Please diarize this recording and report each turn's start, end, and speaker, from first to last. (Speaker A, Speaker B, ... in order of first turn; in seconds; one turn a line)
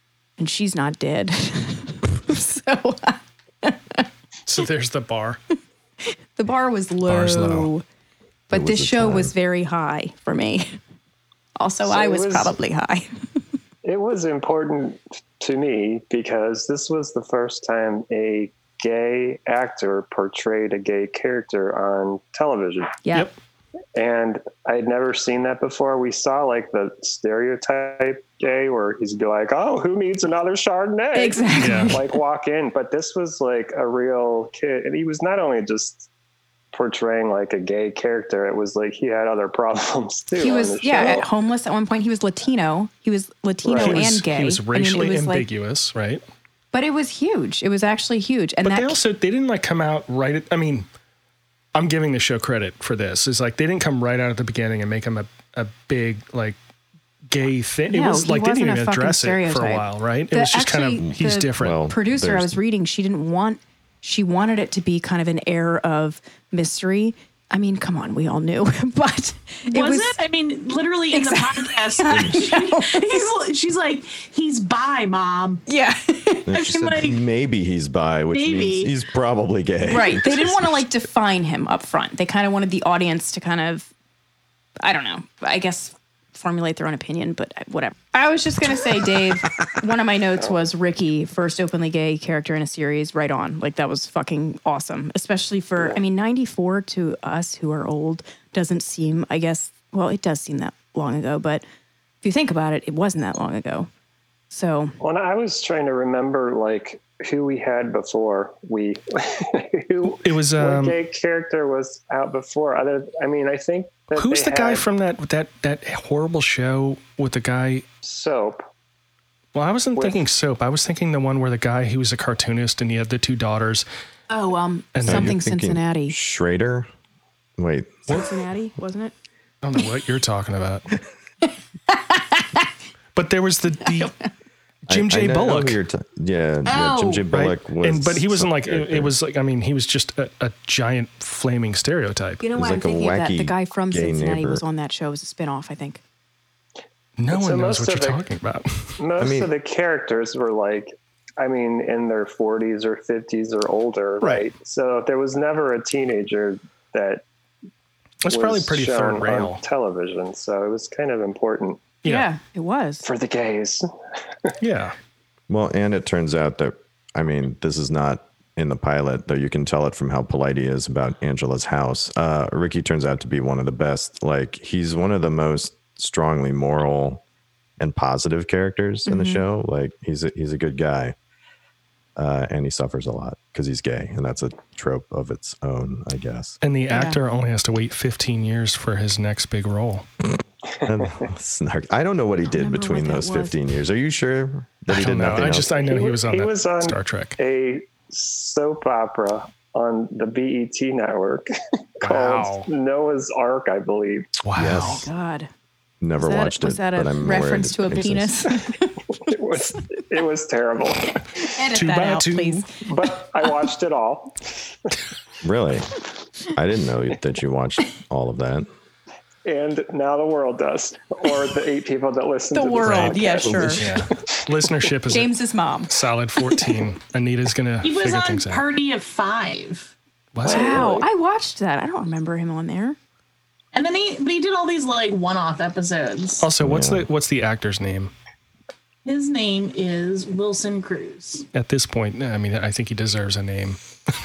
Speaker A: 0.4-4.1
Speaker B: 4.5-5.4
Speaker A: 6.4-7.8
Speaker B: 7.1-7.7
Speaker A: 8.5-10.8
Speaker C: 8.5-9.3
Speaker A: 11.6-13.1
Speaker D: 11.8-12.6
Speaker D: 13.8-23.0
Speaker A: 23.1-23.3
Speaker D: 24.0-36.1
Speaker A: 31.1-32.2
Speaker B: 31.6-32.0
Speaker D: 36.7-41.3
Speaker A: 40.4-45.5
Speaker D: 43.6-44.1
Speaker B: 43.7-46.2
Speaker A: 46.7-49.0
Speaker B: 48.6-50.9
Speaker B: 51.8-56.6
Speaker B: 57.3-61.8
Speaker A: 57.9-70.2
Speaker C: 61.1-62.6
Speaker E: 69.7-75.6
Speaker A: 71.1-73.3
Speaker C: 72.1-72.5
Speaker A: 75.7-76.5
Speaker C: 76.5-80.8
Speaker E: 76.5-77.2
Speaker E: 78.3-78.9
Speaker A: 79.8-83.9
Speaker A: 84.8-101.6
Speaker A: 102.2-103.9
Speaker A: 104.5-105.0
Speaker D: 105.0-114.8
Speaker B: 110.0-111.0
Speaker B: 114.1-117.8
Speaker D: 118.0-118.6
Speaker B: 119.5-123.9
Speaker D: 120.0-120.3
Speaker A: 124.3-126.2
Speaker B: 125.0-125.4
Speaker C: 125.0-126.9
Speaker C: 127.6-128.3
Speaker A: 128.1-129.1
Speaker B: 129.6-130.9
Speaker A: 131.4-132.7
Speaker B: 133.2-134.1
Speaker A: 134.0-134.3
Speaker B: 134.9-135.8
Speaker C: 134.9-139.1
Speaker A: 136.7-137.2
Speaker B: 137.3-142.4
Speaker A: 142.4-146.0
Speaker C: 142.5-144.6
Speaker B: 147.2-149.0
Speaker D: 147.3-148.2
Speaker D: 149.0-157.2
Speaker C: 149.2-149.5
Speaker B: 154.2-154.5
Speaker B: 158.2-159.6
Speaker D: 158.3-162.0
Speaker A: 162.1-163.1
Speaker D: 163.0-163.9
Speaker B: 164.6-164.9
Speaker C: 165.5-177.2
Speaker C: 177.8-181.2
Speaker A: 179.1-179.4
Speaker C: 182.2-186.6
Speaker B: 186.6-190.1
Speaker A: 186.9-187.2
Speaker C: 190.8-195.7
Speaker A: 192.5-193.5
Speaker B: 194.9-197.4
Speaker D: 195.7-204.3
Speaker B: 202.0-202.7
Speaker B: 204.4-205.1
Speaker C: 204.6-205.1
Speaker A: 204.7-205.5
Speaker C: 206.0-208.4
Speaker A: 206.2-209.0
Speaker D: 209.2-211.2
Speaker A: 211.4-212.8
Speaker B: 211.7-212.7
Speaker D: 212.9-214.7
Speaker C: 215.4-215.9
Speaker C: 216.5-218.7
Speaker D: 219.4-223.8
Speaker A: 222.5-223.8
Speaker B: 222.8-225.3
Speaker A: 225.1-225.9
Speaker B: 225.9-228.7
Speaker E: 227.8-229.9
Speaker B: 230.3-230.8
Speaker D: 230.4-231.1
Speaker A: 230.4-233.0
Speaker E: 233.7-236.5
Speaker B: 236.4-238.1
Speaker C: 236.6-237.1
Speaker E: 239.1-241.5
Speaker B: 241.5-243.8